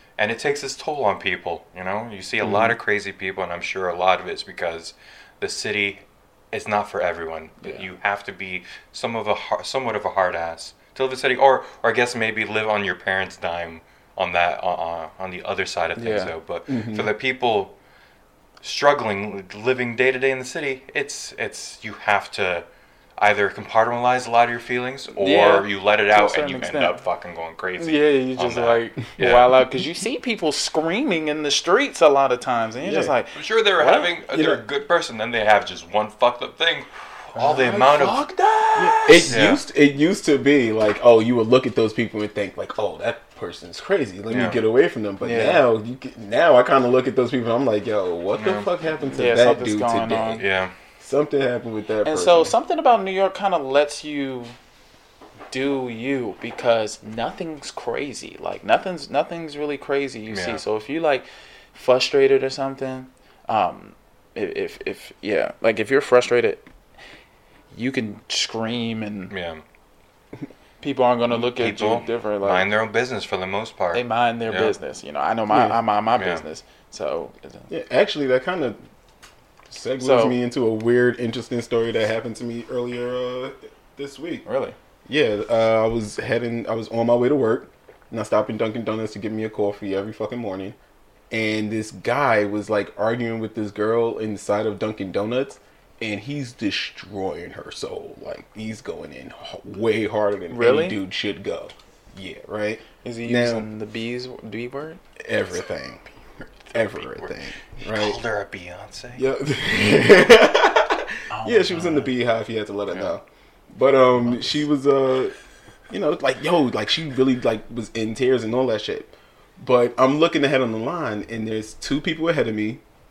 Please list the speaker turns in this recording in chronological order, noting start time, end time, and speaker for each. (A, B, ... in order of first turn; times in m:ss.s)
0:00.2-0:17.7 A
0:16.0-0:16.3 B
0:16.7-0:17.1 C
0:18.6-0:22.6 A
0:23.2-0:29.6 A
0:25.1-0:27.0 B
0:27.8-0:34.1 B
0:32.8-0:33.1 C
0:33.3-0:38.3 A
0:34.3-0:34.6 C
0:37.3-0:39.4 B
0:38.8-0:50.4 C
0:39.3-0:39.6 A
0:44.3-0:44.6 A
0:45.2-0:45.6 B
0:48.3-0:48.7 A
0:49.1-0:50.4 B
0:50.4-0:50.7 A
0:51.0-0:52.5 C
0:52.0-0:54.5 B
0:55.5-1:06.6 B
1:00.3-1:00.6 A
1:07.7-1:09.3 B
1:09.3-1:09.6 A
1:10.8-1:12.7 B
1:11.3-1:14.7 A
1:13.9-1:17.7 B
1:15.5-1:15.8 C
1:16.2-1:16.4 A
1:17.7-1:18.8 C
1:19.7-1:24.4 C
1:20.0-1:20.4 B
1:24.4-1:24.8 B
1:25.0-1:30.8 C
1:31.3-1:43.7 C
1:40.5-1:41.0 B
1:43.0-1:45.0 B
1:45.2-1:46.1 C
1:46.7-1:48.2 C
1:46.9-1:49.2 A
1:49.1-1:55.3 C
1:51.3-1:52.1 B
1:54.2-1:54.6 B
1:55.9-2:02.8 C